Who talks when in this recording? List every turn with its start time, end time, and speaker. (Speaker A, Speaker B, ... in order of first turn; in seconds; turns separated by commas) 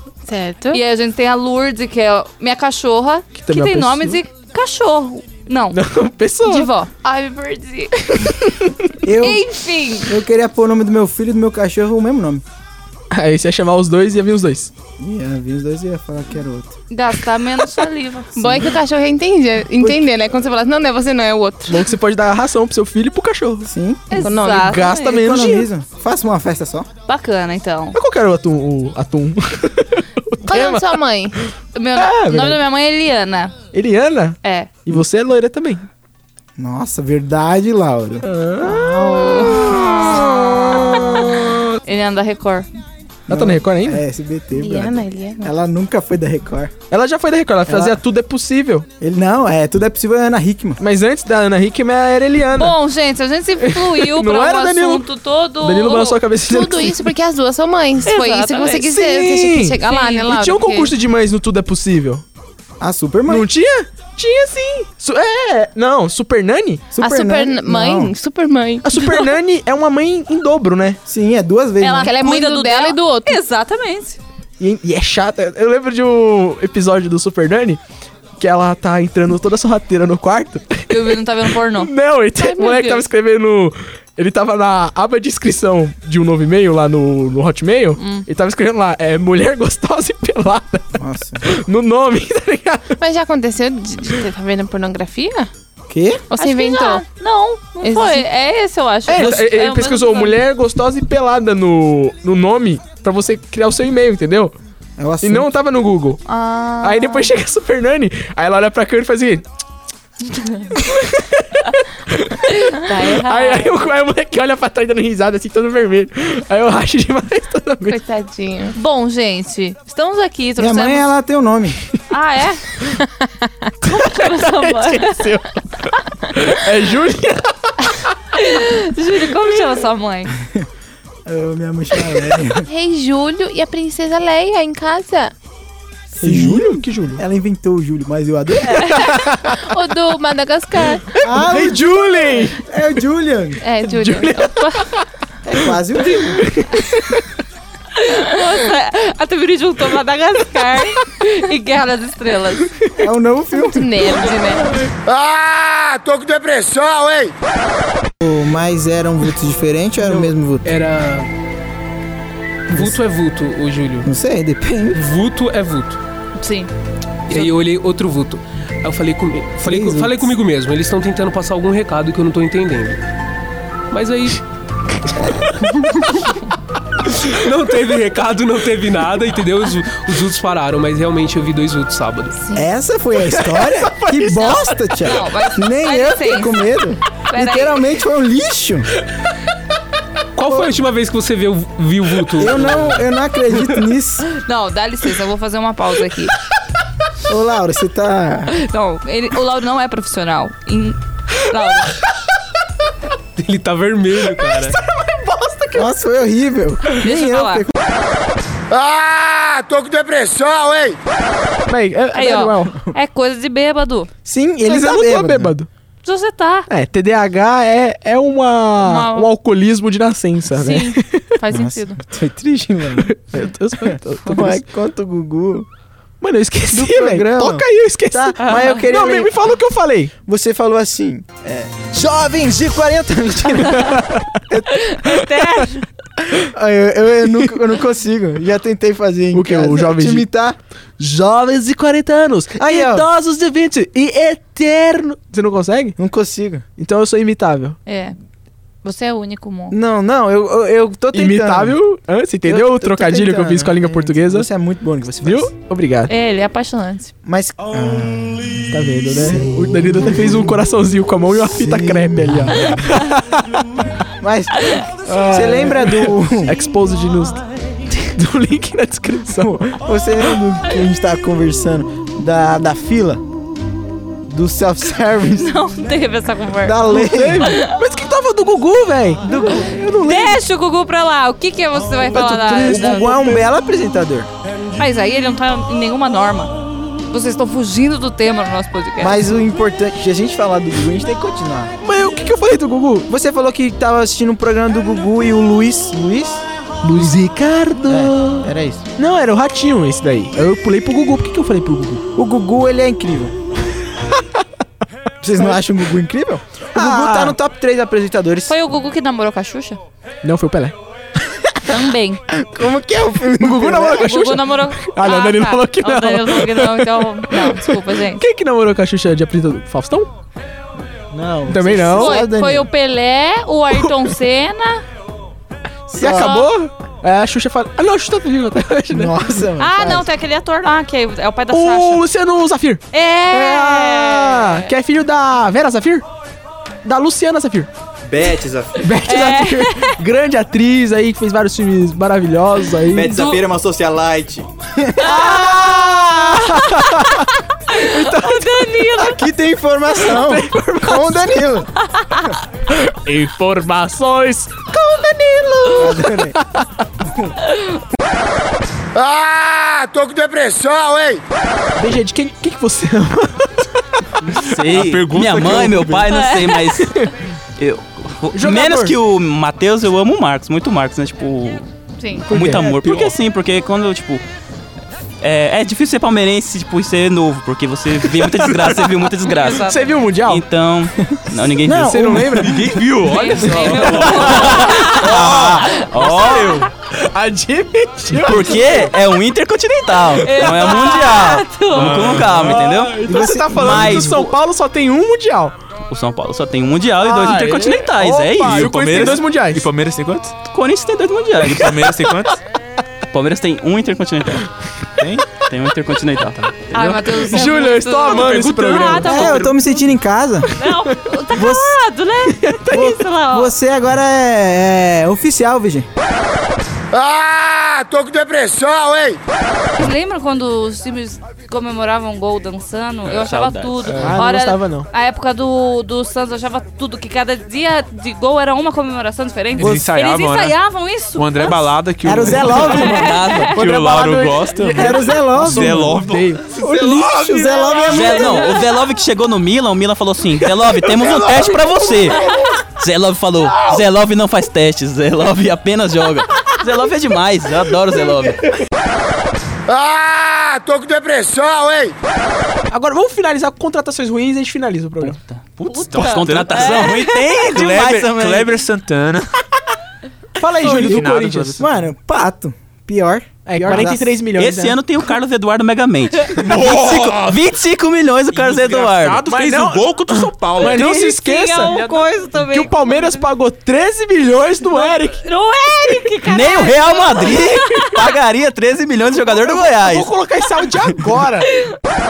Speaker A: 0.3-0.8, Speaker B: 0.7-5.8, Speaker C: 3.3-4.2, Speaker C: 5.7-6.7, Speaker B: 6.4-8.3, Speaker C: 8.2-8.5, Speaker D: 9.0-9.4, Speaker B: 9.2-10.1, Speaker D: 10.0-12.4, Speaker C: 13.1-14.7, Speaker D: 15.0-16.7, Speaker B: 16.9-18.6, Speaker A: 18.4-21.9, Speaker C: 21.7-23.7, Speaker D: 23.7-24.2, Speaker B: 24.1-25.2, Speaker A: 24.1-24.8, Speaker C: 24.6-25.7, Speaker D: 25.0-26.9, Speaker B: 27.1-28.0, Speaker C: 27.9-31.0, Speaker A: 30.4-31.4, Speaker B: 31.8-33.6, Speaker C: 32.0-32.6, Speaker C: 33.7-35.9, Speaker B: 34.4-34.7, Speaker D: 36.6-39.7, Speaker C: 38.2-39.6, Speaker A: 39.9-40.8, Speaker C: 40.8-41.5, Speaker B: 41.8-42.7, Speaker D: 43.3-46.8, Speaker C: 43.3-44.0, Speaker A: 44.5-45.5, Speaker C: 46.9-48.9, Speaker D: 47.7-48.0, Speaker D: 49.0-50.8, Speaker C: 50.8-52.8, Speaker B: 52.5-56.2, Speaker C: 53.6-55.1, Speaker C: 55.6-57.1, Speaker A: 56.4-60.9, Speaker B: 58.0-59.0, Speaker C: 58.7-62.2, Speaker B: 59.8-60.3, Speaker D: 62.8-63.5, Speaker C: 63.3-66.9, Speaker D: 66.9-68.1, Speaker A: 67.0-69.3, Speaker C: 68.8-71.0, Speaker D: 71.1-72.1, Speaker B: 71.8-74.2, Speaker A: 71.9-73.4, Speaker C: 74.6-77.8, Speaker C: 78.4-93.0, Speaker B: 80.9-81.9, Speaker B: 82.4-83.0, Speaker A: 88.0-88.2, Speaker D: 91.0-91.5, Speaker A: 93.0-95.5, Speaker D: 95.9-96.2, Speaker A: 96.3-97.0, Speaker B: 96.4-100.4, Speaker A: 97.8-98.3, Speaker C: 99.1-104.5, Speaker D: 105.0-105.5, Speaker C: 105.2-106.2, Speaker B: 106.3-107.2, Speaker C: 106.8-109.4, Speaker C: 110.8-118.0, Speaker B: 112.8-113.7, Speaker A: 117.8-118.8, Speaker B: 118.8-121.1, Speaker D: 120.6-121.8, Speaker B: 122.1-122.6, Speaker B: 123.8-125.2, Speaker C: 123.9-128.1, Speaker B: 128.3-130.3, Speaker D: 131.3-132.7, Speaker A: 132.7-135.3, Speaker C: 136.2-137.2, Speaker D: 136.2-139.1, Speaker A: 138.9-141.0, Speaker C: 139.1-139.4, Speaker C: 141.1-142.6, Speaker D: 141.2-141.9, Speaker D: 142.6-143.6, Speaker A: 143.6-144.9, Speaker C: 143.8-145.0, Speaker D: 145.4-146.4, Speaker C: 146.0-147.2, Speaker B: 148.0-152.7, Speaker D: 153.0-154.1, Speaker A: 153.6-154.8, Speaker E: 155.0-157.3, Speaker D: 158.2-160.7, Speaker F: 160.7-161.3, Speaker F: 162.7-164.1, Speaker D: 162.7-163.0, Speaker D: 164.1-165.0, Speaker F: 164.9-166.0, Speaker A: 166.4-166.7, Speaker F: 167.3-173.0, Speaker D: 169.6-170.3, Speaker F: 173.9-174.4, Speaker F: 175.6-176.2, Speaker F: 177.1-182.4, Speaker D: 182.5-188.9, Speaker C: 183.3-184.8, Speaker B: 184.9-186.7, Speaker B: 187.3-187.8, Speaker F: 190.4-193.1, Speaker D: 192.3-194.3, Speaker B: 194.4-196.3, Speaker D: 197.3-198.5, Speaker B: 198.5-202.0, Speaker F: 203.4-204.8, Speaker C: 204.4-205.9, Speaker D: 205.7-207.7, Speaker B: 206.9-207.7, Speaker E: 208.7-211.0, Speaker C: 211.7-212.8, Speaker B: 212.1-214.1, Speaker D: 214.2-215.6, Speaker C: 214.6-215.7, Speaker B: 216.0-216.7, Speaker C: 216.7-221.2, Speaker B: 218.8-219.3, Speaker B: 220.6-222.0, Speaker D: 221.5-223.1, Speaker C: 223.0-224.6, Speaker D: 223.8-225.7, Speaker C: 226.2-230.1, Speaker D: 226.7-229.3, Speaker B: 228.4-228.8, Speaker D: 230.2-234.9, Speaker B: 234.8-235.8, Speaker D: 236.3-240.6, Speaker C: 239.3-240.3, Speaker C: 241.0-246.0, Speaker D: 242.6-243.1, Speaker D: 246.0-246.7, Speaker C: 246.8-247.8, Speaker B: 247.9-248.2, Speaker B: 248.8-249.8, Speaker D: 249.7-251.8, Speaker C: 251.1-254.5, Speaker D: 252.5-255.5, Speaker C: 255.2-256.1, Speaker B: 256.1-257.1, Speaker D: 257.2-260.6, Speaker C: 258.7-263.6, Speaker D: 261.4-262.9, Speaker D: 264.2-266.6, Speaker C: 265.1-269.8, Speaker D: 269.4-273.2, Speaker D: 274.3-275.5, Speaker B: 275.4-277.7, Speaker D: 276.6-277.6, Speaker C: 276.9-280.4, Speaker D: 279.4-279.7, Speaker B: 280.0-283.3, Speaker C: 282.1-283.4, Speaker D: 282.2-284.3, Speaker B: 284.8-289.2, Speaker D: 289.0-291.7, Speaker C: 291.8-293.1, Speaker D: 293.1-296.4, Speaker C: 296.8-302.0, Speaker D: 297.9-298.9, Speaker D: 302.1-303.3, Speaker D: 305.2-308.5, Speaker C: 306.8-307.4, Speaker B: 308.5-309.8, Speaker C: 310.2-310.8, Speaker B: 311.6-312.2, Speaker D: 312.3-314.1, Speaker C: 313.4-320.1, Speaker B: 314.0-318.2, Speaker D: 321.1-322.7, Speaker C: 321.5-322.2, Speaker B: 321.9-324.8, Speaker D: 325.9-326.4, Speaker C: 325.9-329.2, Speaker B: 326.0-326.5, Speaker D: 328.9-330.1, Speaker B: 329.6-332.0, Speaker C: 331.5-336.1, Speaker B: 332.9-334.7, Speaker C: 336.8-337.7, Speaker C: 338.8-343.2, Speaker B: 339.0-340.0, Speaker B: 343.0-343.5, Speaker B: 345.0-347.2, Speaker C: 345.0-348.9, Speaker B: 347.7-349.2, Speaker D: 349.0-351.7, Speaker C: 350.1-351.4, Speaker C: 352.7-356.6, Speaker D: 355.7-356.4, Speaker D: 357.0-357.3, Speaker E: 358.9-361.2, Speaker C: 361.8-363.7, Speaker G: 364.3-366.9, Speaker H: 364.4-366.1, Speaker B: 366.1-366.6, Speaker C: 366.8-367.1, Speaker G: 367.6-371.7, Speaker C: 368.3-369.0, Speaker B: 372.0-372.3, Speaker C: 372.3-373.1, Speaker G: 372.3-374.2, Speaker G: 375.2-379.7, Speaker B: 379.3-379.9, Speaker C: 379.5-380.4, Speaker G: 380.3-382.4, Speaker D: 381.6-382.6, Speaker C: 381.7-382.8, Speaker H: 382.5-386.7, Speaker B: 383.0-385.1, Speaker C: 383.5-384.0, Speaker G: 383.7-386.7, Speaker C: 386.9-388.9, Speaker G: 388.1-393.0, Speaker B: 390.2-392.1, Speaker H: 391.7-392.9, Speaker C: 392.4-395.6, Speaker D: 393.1-394.2, Speaker G: 393.5-394.4, Speaker G: 395.9-399.2, Speaker C: 397.0-399.7, Speaker H: 398.4-400.3, Speaker G: 400.5-402.0, Speaker H: 401.4-402.4, Speaker G: 403.1-404.5, Speaker G: 405.4-406.6, Speaker B: 406.7-409.6, Speaker C: 407.1-409.7, Speaker D: 409.0-410.5, Speaker B: 410.6-413.5, Speaker D: 411.3-411.8, Speaker C: 412.3-413.0, Speaker D: 412.7-415.9, Speaker E: 416.9-419.2, Speaker B: 419.8-431.7, Speaker G: 423.1-424.1, Speaker C: 424.0-424.9, Speaker H: 429.6-430.6, Speaker H: 431.1-432.9, Speaker D: 432.0-433.3, Speaker B: 432.6-433.5, Speaker G: 432.9-433.8, Speaker H: 433.5-437.0, Speaker C: 433.6-438.1, Speaker D: 434.6-436.1, Speaker D: 436.6-438.6, Speaker G: 437.9-448.5, Speaker C: 440.9-442.5, Speaker E: 449.7-451.9, Speaker C: 452.7-455.2, Speaker G: 455.0-458.6, Speaker H: 455.6-459.3, Speaker B: 455.8-457.2, Speaker C: 460.4-461.6, Speaker H: 460.6-461.7, Speaker D: 460.7-461.0, Speaker D: 461.6-464.1, Speaker C: 463.4-464.8, Speaker G: 464.4-469.2, Speaker H: 466.4-467.4, Speaker H: 468.4-471.0, Speaker C: 469.2-475.3, Speaker B: 470.6-473.2, Speaker B: 474.7-478.1, Speaker G: 476.2-480.1, Speaker C: 479.2-481.5